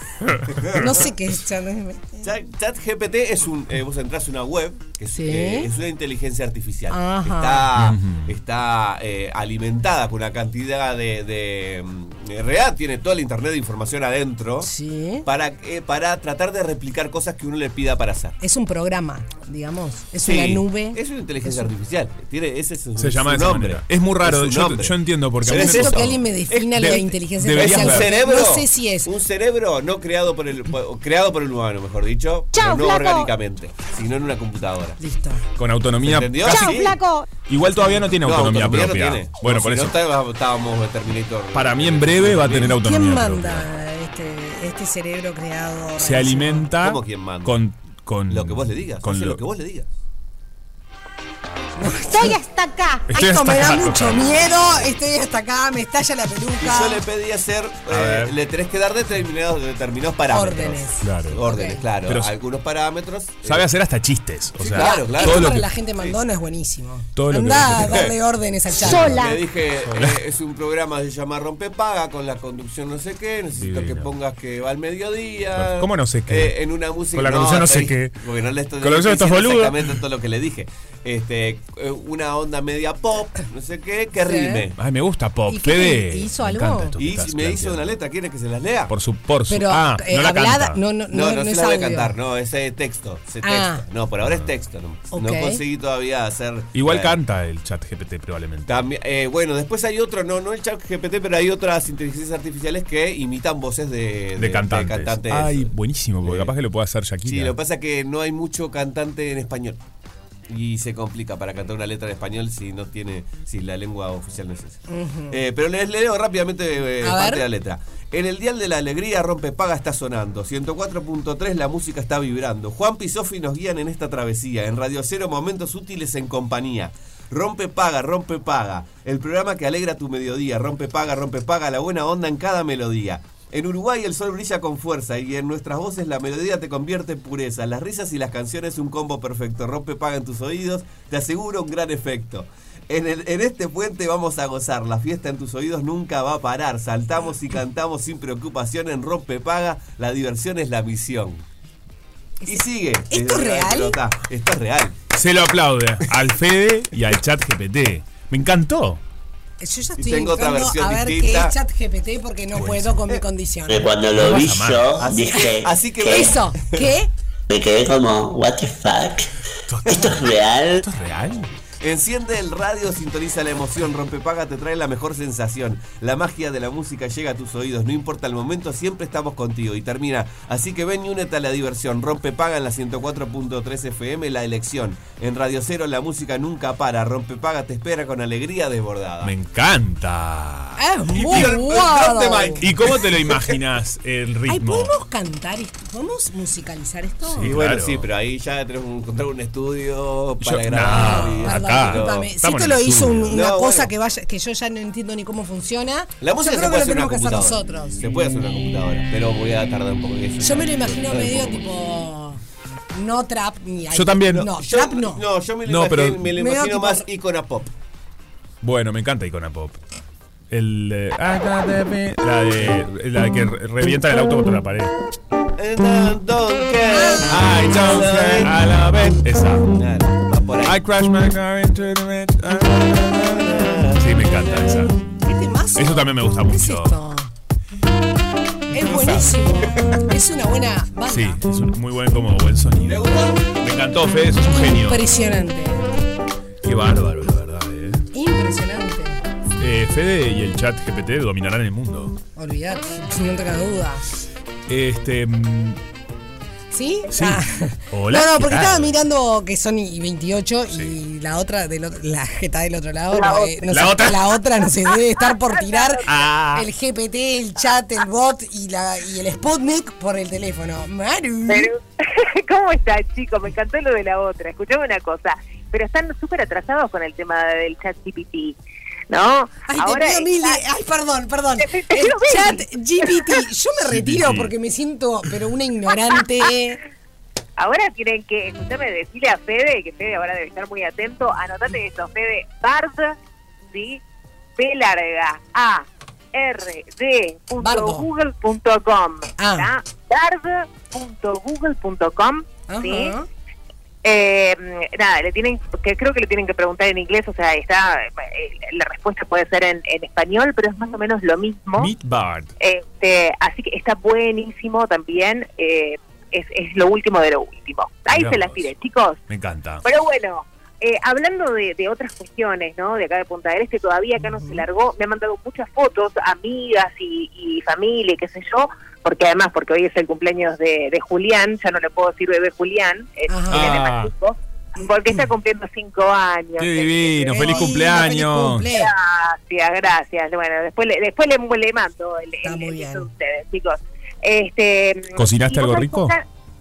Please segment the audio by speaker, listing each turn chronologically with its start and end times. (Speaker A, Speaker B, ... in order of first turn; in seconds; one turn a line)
Speaker A: 0.3-0.6
Speaker B: 0.6-0.9
Speaker C: 0.7-2.3
Speaker B: 2.2-14.7
Speaker C: 5.1-5.7
Speaker C: 6.9-7.7
Speaker A: 7.7-8.3
Speaker C: 14.6-15.3
Speaker B: 15.2-18.4
Speaker C: 18.4-21.7
Speaker B: 20.2-35.0
Speaker A: 23.0-28.1
Speaker C: 25.5-29.1
Speaker C: 35.0-35.4
Speaker A: 35.6-36.9
Speaker B: 36.0-37.0
Speaker C: 36.5-36.9
Speaker A: 37.5-40.0
Speaker B: 38.1-42.8
Speaker A: 41.5-43.7
Speaker C: 42.8-46.7
Speaker A: 46.0-49.4
Speaker B: 46.8-47.6
Speaker B: 48.3-49.9
Speaker C: 51.8-57.0
Speaker A: 53.1-54.9
Speaker B: 56.6-63.7
Speaker A: 57.9-58.3
Speaker C: 60.3-61.8
Speaker A: 61.0-61.5
Speaker A: 62.1-62.3
Speaker A: 63.5-65.7
Speaker B: 64.6-66.1
Speaker C: 64.8-69.3
Speaker A: 67.2-68.1
Speaker B: 67.8-68.1
Speaker A: 68.8-69.3
Speaker B: 68.8-84.8
Speaker A: 69.8-70.2
Speaker A: 73.5-74.1
Speaker A: 75.5-76.5
Speaker A: 77.1-78.2
Speaker A: 78.8-79.9
Speaker C: 84.2-84.7
Speaker A: 84.8-87.9
Speaker C: 85.5-86.9
Speaker B: 87.0-88.9
Speaker A: 88.9-90.8
Speaker C: 89.5-92.1
Speaker B: 91.1-97.2
Speaker C: 93.4-93.8
Speaker A: 94.2-94.5
Speaker C: 95.1-95.6
Speaker A: 96.7-98.8
Speaker B: 98.7-105.7
Speaker A: 104.4-107.5
Speaker B: 106.2-106.5
Speaker B: 107.2-109.8
Speaker B: 110.5-151.4
Speaker C: 114.9-115.4
Speaker C: 117.0-117.4
Speaker C: 152.4-154.0
Speaker B: 152.5-155.0
Speaker A: 155.1-159.0
Speaker C: 159.6-163.9
Speaker B: 160.0-161.5
Speaker A: 162.5-163.0
Speaker D: 163.7-166.3
Speaker A: 164.1-165.0
Speaker B: 165.0-166.9
Speaker C: 166.1-167.1
Speaker D: 167.5-169.3
Speaker A: 169.7-171.6
Speaker D: 169.9-170.9
Speaker B: 171.8-189.3
Speaker A: 189.2-191.9
Speaker C: 190.8-192.6
Speaker B: 191.2-193.5
Speaker A: 192.6-194.9
Speaker C: 194.5-197.5
Speaker A: 197.2-198.1
Speaker B: 197.4-202.3
Speaker A: 200.4-203.4
Speaker C: 200.9-208.0
Speaker B: 203.3-203.9
Speaker B: 206.2-211.6
Speaker C: 210.4-212.4
Speaker C: 212.9-215.2
Speaker A: 213.9-214.5
Speaker B: 214.3-217.7
Speaker A: 215.7-216.3
Speaker C: 216.4-217.1
Speaker A: 218.6-219.8
Speaker A: 220.5-224.9
Speaker B: 225.6-228.6
Speaker C: 226.9-227.3
Speaker A: 227.3-229.7
Speaker B: 229.8-230.8
Speaker A: 230.6-234.9
Speaker B: 233.1-234.4
Speaker C: 235.2-237.3
Speaker A: 235.8-237.0
Speaker C: 238.7-241.4
Speaker B: 238.9-239.9
Speaker A: 241.1-245.0
Speaker B: 242.8-243.5
Speaker C: 244.7-245.9
Speaker A: 246.6-248.1
Speaker C: 248.1-249.2
Speaker A: 249.6-252.2
Speaker C: 252.4-254.1
Speaker A: 254.7-255.8
Speaker C: 256.7-271.7
Speaker A: 257.1-259.0
Speaker E: 263.1-263.6
Speaker A: 263.7-264.4
Speaker E: 265.2-266.1
Speaker A: 266.1-266.7
Speaker E: 271.5-278.6
Speaker E: 279.1-280.6
Speaker C: 279.7-286.8
Speaker E: 281.6-283.4
Speaker A: 283.9-284.5
Speaker E: 287.6-294.0
Speaker E: 294.6-303.1
Speaker C: 297.6-298.1
Speaker C: 299.4-299.7
Speaker C: 302.7-303.3
Speaker E: 304.0-311.9
Speaker A: 311.8-312.5
Speaker E: 312.6-319.2
Speaker A: 318.1-318.7
Speaker A: 319.3-319.9
Speaker E: 319.8-337.5
Speaker C: 324.2-324.7
Speaker C: 333.3-333.8
Speaker A: 333.5-334.1
Speaker A: 336.6-338.7
Speaker C: 337.4-338.9
Speaker E: 338.7-346.2
Speaker C: 342.4-343.1
Speaker A: 345.2-346.1